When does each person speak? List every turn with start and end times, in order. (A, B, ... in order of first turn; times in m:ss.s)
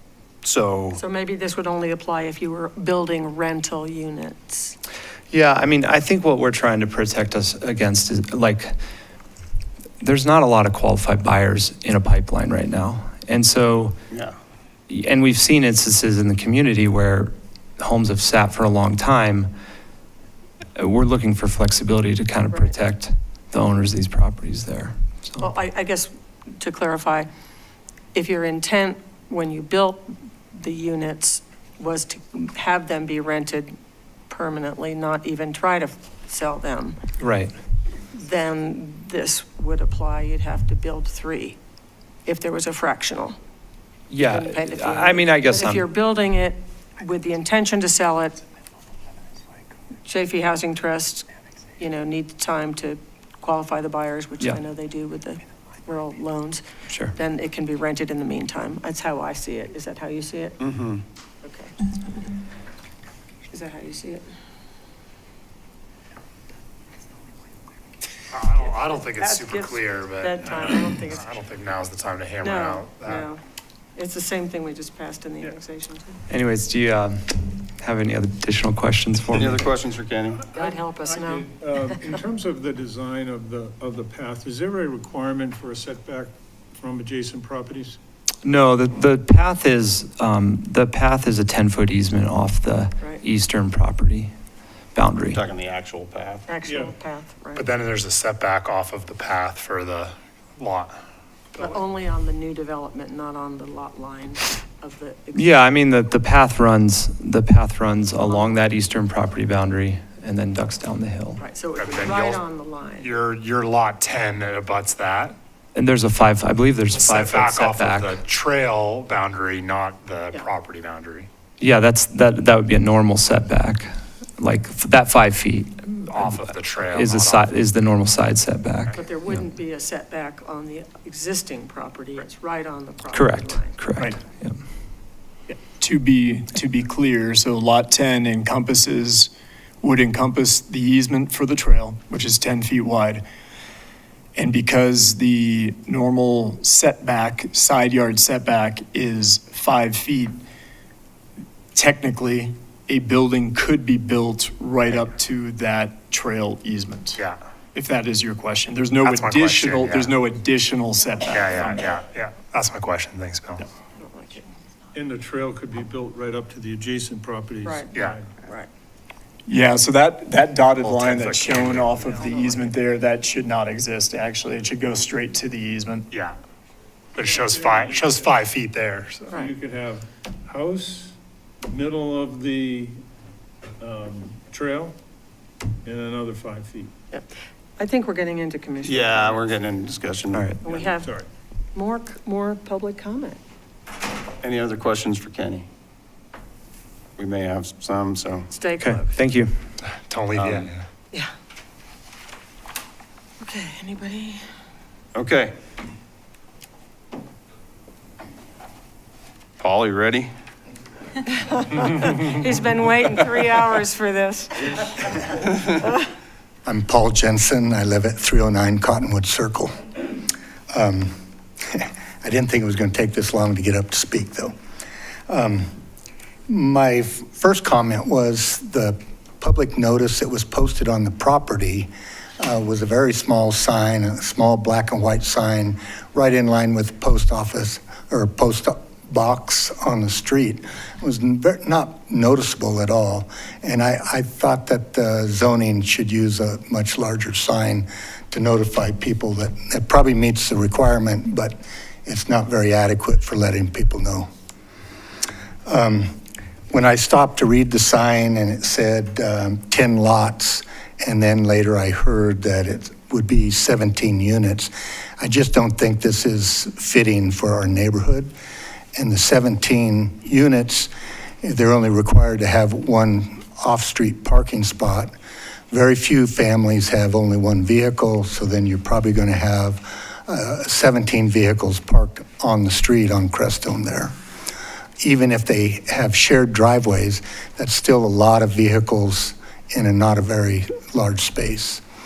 0:00.4-0:01.0 A
0:00.9-0:04.8 B
0:05.3-0:08.7 C
0:10.0-0:13.9 C
0:14.9-0:19.5 C
0:20.8-0:25.5 C
0:22.5-0:22.8 B
0:25.4-0:27.3 B
0:28.1-0:33.7 B
0:34.3-0:37.0 B
0:37.2-0:37.5 C
0:38.1-0:41.6 B
0:42.2-0:43.4 B
0:44.1-0:45.8 C
0:44.2-0:48.4 B
0:50.0-0:51.3 B
0:51.8-0:56.6 B
0:57.1-1:00.6 B
1:00.6-1:01.0 A
1:01.4-1:01.8 B
1:03.5-1:04.3 B
1:08.3-1:13.3 D
1:09.1-1:11.3 B
1:12.4-1:13.4 B
1:14.0-1:16.2 B
1:16.3-1:19.6 C
1:19.3-1:20.5 A
1:20.5-1:21.5 B
1:20.6-1:28.0 E
1:28.4-1:34.3 C
1:34.9-1:35.4 C
1:35.3-1:36.5 A
1:36.5-1:37.7 B
1:36.7-1:36.9 E
1:37.6-1:41.0 D
1:41.6-1:45.7 B
1:45.3-1:51.4 C
1:48.2-1:48.7 B
1:51.4-1:53.1 B
1:51.8-1:52.4 D
1:53.0-1:55.4 D
1:55.7-1:58.2 C
1:56.9-2:01.3 D
2:01.6-2:09.4 C
2:06.1-2:07.7 D
2:08.9-2:13.8 B
2:13.1-2:14.6 C
2:15.5-2:23.2 F
2:24.4-2:30.4 F
2:31.7-2:37.2 F
2:37.7-2:41.6 F
2:39.0-2:40.1 D
2:41.2-2:43.6 D
2:41.6-2:41.8 E
2:44.0-2:44.5 B
2:44.9-2:48.2 E
2:47.6-2:47.9 B
2:47.9-2:48.2 D
2:48.4-2:48.7 B
2:49.5-2:56.1 F
2:50.8-2:52.0 D
2:56.1-2:56.4 D
2:57.1-2:59.3 D
2:57.2-2:58.3 E
2:59.3-3:01.1 E
3:01.7-3:03.0 E
3:03.8-3:04.9 E
3:05.8-3:06.9 E
3:07.8-3:09.5 B
3:08.8-3:10.7 A
3:10.3-3:10.6 C
3:10.6-3:11.1 B
3:11.0-3:11.2 E
3:11.7-3:13.4 B
3:14.4-3:15.7 A
3:17.2-3:18.5 A
3:18.5-3:19.2 B
3:18.8-3:19.5 C
3:20.0-3:20.8 D
3:20.3-3:20.7 A
3:23.4-3:24.4 B
3:25.1-3:25.5 A
3:29.6-3:30.3 A
3:31.3-3:34.9 B
3:36.6-3:39.8 G
3:40.7-3:41.1 G
3:41.7-3:44.5 G
3:45.3-3:45.7 G
3:46.5-4:14.3 G
4:15.6-4:16.1 G
4:16.7-4:28.3 G
4:29.0-4:30.9 G
4:31.4-4:35.1 G
4:35.7-4:44.1 G
4:45.0-4:51.8 G